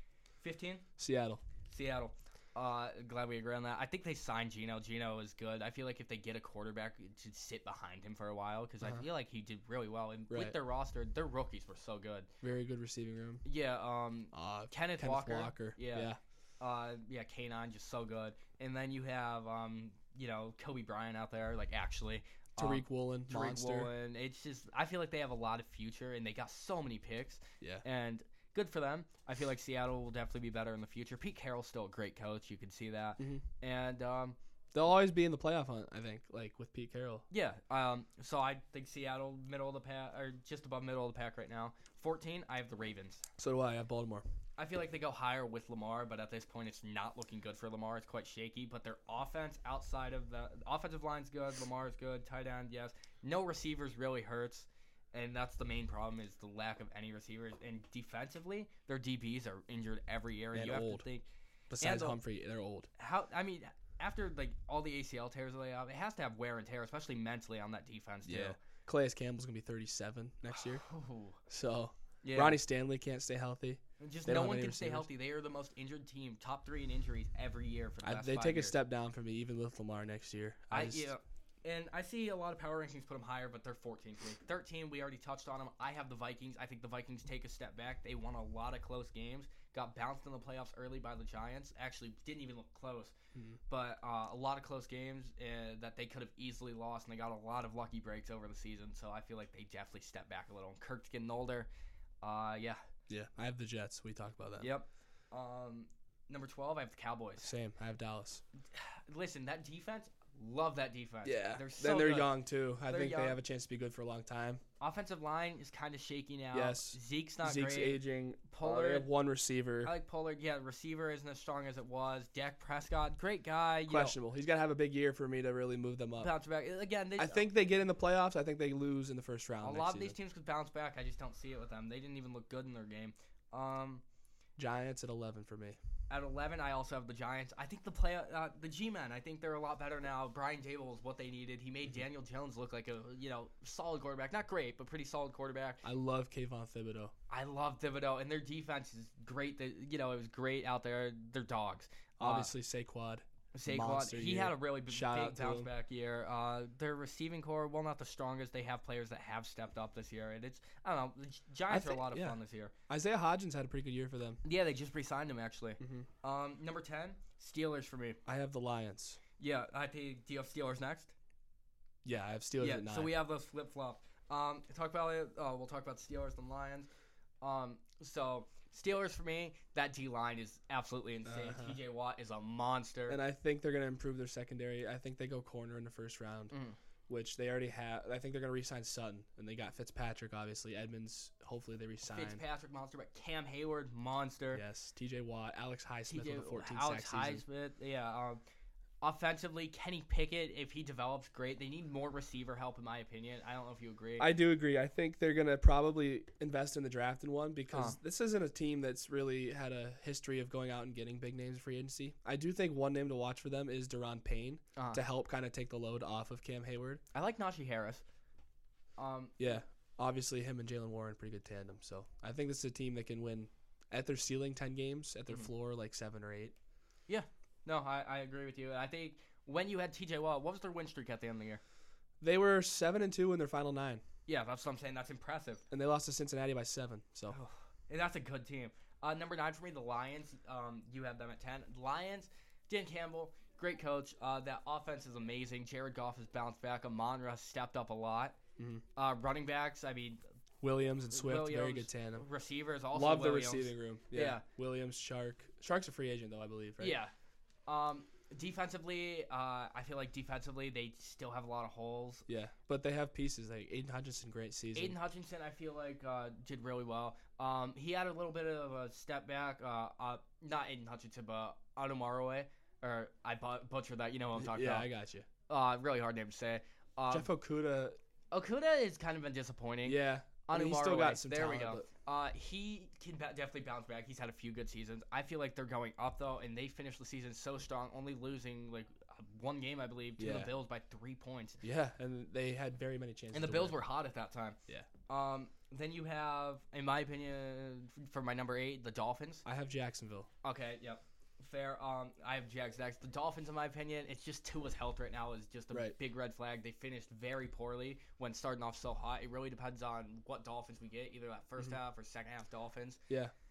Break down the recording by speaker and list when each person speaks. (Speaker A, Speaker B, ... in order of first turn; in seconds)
Speaker A: 0.4-0.8, 1.6-12.3, 13.4-34.4, 37.3-43.3, 44.6-61.3, 61.8-62.2, 63.0-68.6, 70.6-71.4, 72.2-72.6, 74.0-78.7, 80.7-93.1, 93.7-101.7, 102.2-102.8, 104.6-107.5, 108.7-113.4, 114.8-119.1, 119.8-124.2, 126.2-127.5, 129.6-134.0, 136.1-145.8, 147.3-152.5, 153.5-162.7, 164.4-168.2, 169.4-171.1, 172.6-176.9, 177.4-183.2, 186.5-186.8, 192.1-194.6, 196.1-198.4, 199.0-204.3, 207.7-208.0, 214.8-215.0, 217.1-218.0, 219.0-219.3, 227.1-231.6, 234.3-235.6, 237.3-248.4, 248.9-250.2, 251.1-254.4, 256.8-257.1, 257.7-262.2, 264.7-274.9, 275.5-277.3, 278.3-291.6, 293.3-299.4, 300.4-313.0
Speaker B: 1.0-1.4, 10.3-10.6, 12.4-13.4, 14.3-16.2, 22.6-23.9, 34.7-37.2, 43.4-44.2, 60.5-61.0, 61.7-62.9, 68.2-70.8, 71.5-75.1, 78.0-81.1, 103.1-104.7, 107.4-108.4, 111.2-114.6, 116.5-119.9, 123.9-126.3, 127.2-130.2, 134.6-135.8, 145.8-147.1, 152.2-155.7, 161.7-164.4, 165.8-166.1, 168.2-169.2, 172.0-173.1, 181.2-181.8, 183.1-186.5, 187.1-192.4, 194.5-197.4, 204.2-217.0, 219.4-226.5, 232.2-234.0, 235.7-237.3, 248.6-248.8, 250.6-252.3, 252.9-257.0, 262.3-264.9, 274.3-275.3, 277.1-278.0, 279.8-281.9, 290.2-290.5, 291.6-293.8, 299.4-300.3